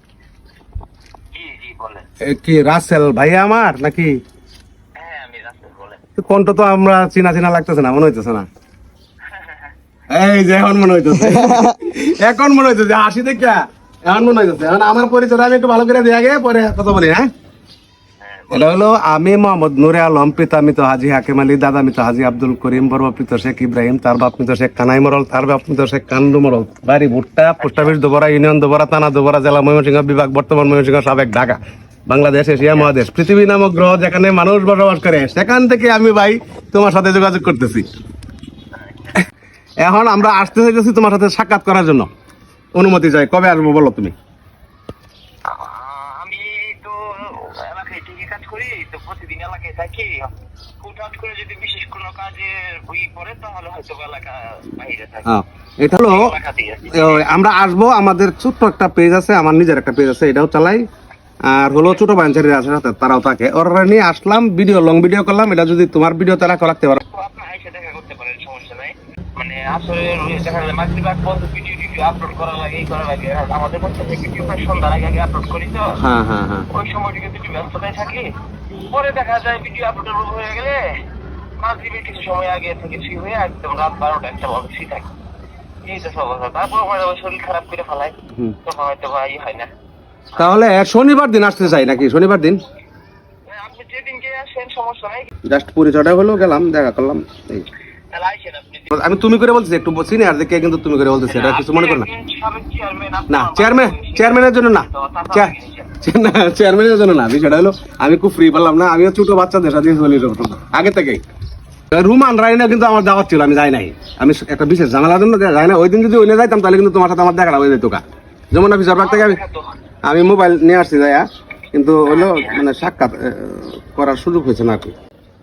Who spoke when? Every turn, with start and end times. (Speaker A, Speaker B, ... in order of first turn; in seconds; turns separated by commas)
Speaker A: 1.3-2.0, Speaker B: 2.2-4.2, Speaker A: 5.0-6.0, Speaker B: 6.2-8.5, Speaker A: 9.2-9.7, Speaker B: 10.1-17.2, Speaker A: 18.2-18.8, Speaker B: 18.5-37.9, Speaker A: 27.6-27.9, Speaker B: 39.8-42.1, Speaker B: 42.8-44.1, Speaker A: 45.5-55.3, Speaker B: 55.2-56.4, Speaker A: 55.9-57.3, Speaker B: 56.9-60.9, Speaker B: 61.4-67.0, Speaker A: 61.7-62.0, Speaker A: 67.0-76.0, Speaker B: 76.0-76.7, Speaker A: 76.7-81.0, Speaker A: 81.6-85.1, Speaker A: 85.8-89.7, Speaker B: 90.4-92.6, Speaker A: 93.5-95.3, Speaker B: 95.5-97.7, Speaker A: 98.1-98.9, Speaker B: 98.9-102.1, Speaker A: 101.3-105.9, Speaker B: 103.3-111.2, Speaker B: 111.9-118.0, Speaker B: 118.5-119.4, Speaker A: 119.0-119.7, Speaker B: 120.0-124.9, Speaker A: 122.1-122.6